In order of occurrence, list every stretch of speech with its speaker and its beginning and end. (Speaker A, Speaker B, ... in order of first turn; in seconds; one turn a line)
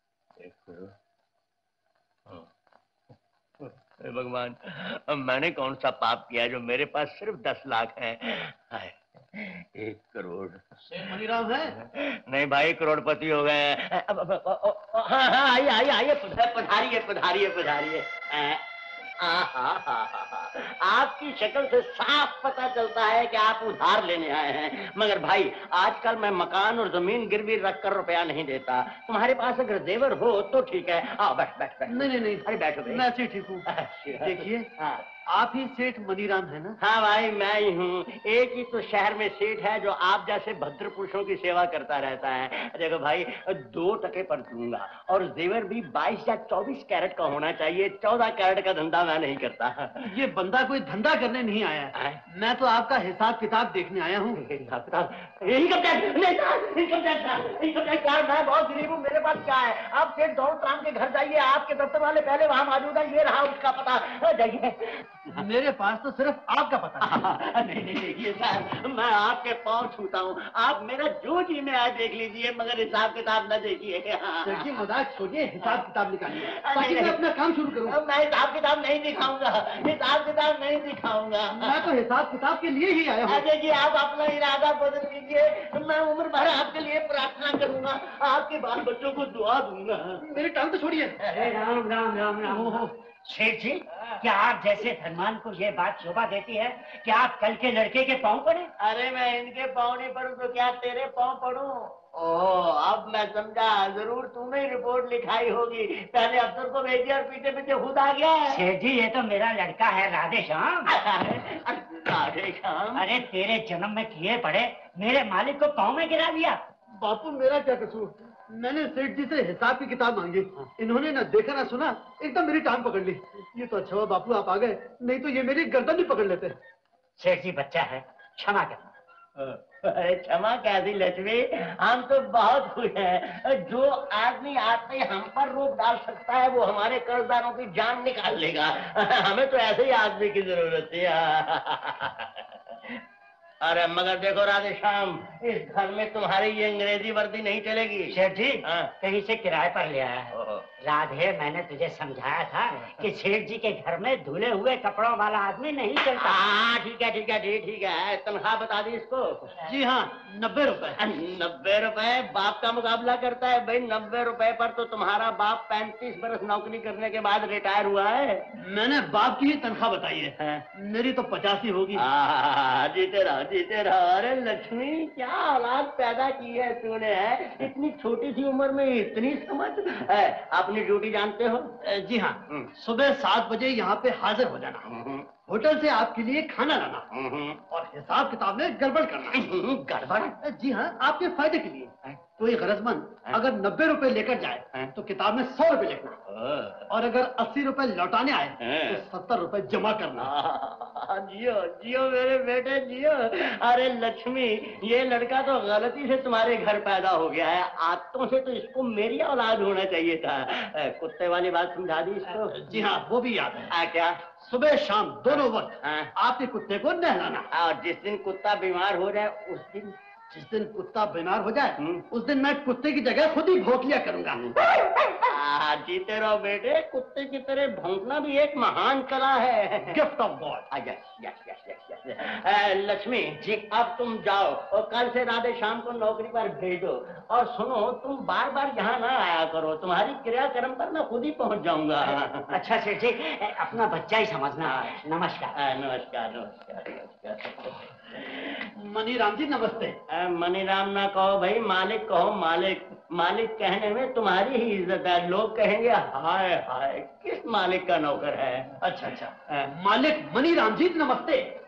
Speaker A: 0.4-0.9
Speaker A: 3.6-11.2
Speaker B: 10.9-11.8
Speaker A: 11.7-18.6
Speaker A: 19.2-33.1
Speaker B: 31.9-33.6
Speaker A: 33.7-35.0
Speaker B: 34.2-34.7
Speaker B: 35.3-36.8
Speaker A: 36.8-50.0
Speaker B: 50.0-54.4
Speaker A: 51.9-52.2
Speaker A: 54.4-65.5
Speaker B: 65.3-67.2
Speaker A: 67.0-74.8
Speaker B: 74.4-78.0
Speaker A: 76.3-81.9
Speaker B: 81.5-83.4
Speaker A: 83.2-90.4
Speaker B: 90.2-91.2
Speaker A: 91.2-91.6
Speaker C: 91.3-98.7
Speaker A: 92.5-92.8
Speaker A: 98.8-108.6
Speaker C: 108.5-110.9
Speaker A: 110.9-113.2
Speaker C: 112.9-116.6
Speaker B: 117.0-126.5
Speaker C: 127.2-128.9
Speaker A: 129.4-142.7
Speaker A: 143.6-148.9
Speaker C: 148.1-150.3
Speaker A: 150.3-150.7
Speaker C: 150.8-156.4
Speaker A: 152.8-153.1
Speaker A: 156.2-159.6
Speaker B: 159.6-161.0
Speaker A: 161.0-168.4
Speaker B: 168.6-172.0
Speaker A: 170.4-170.6
Speaker A: 171.9-181.7
Speaker B: 181.8-184.8
Speaker A: 184.8-185.3
Speaker B: 185.5-187.1
Speaker A: 187.1-187.6
Speaker B: 187.7-189.4
Speaker A: 189.3-190.3
Speaker B: 190.4-196.2
Speaker A: 196.3-196.9
Speaker B: 196.9-200.3
Speaker A: 198.6-199.0
Speaker A: 200.2-212.8
Speaker B: 212.5-213.7
Speaker A: 213.7-214.2
Speaker B: 214.4-217.5
Speaker A: 215.3-216.1
Speaker A: 217.5-219.9
Speaker B: 220.3-224.5
Speaker A: 221.8-222.0
Speaker A: 225.1-230.0
Speaker B: 229.8-230.7
Speaker A: 230.7-242.5
Speaker C: 242.0-245.5
Speaker A: 244.6-245.0
Speaker A: 245.5-248.7
Speaker B: 248.8-249.9
Speaker A: 250.1-258.8
Speaker B: 258.8-261.4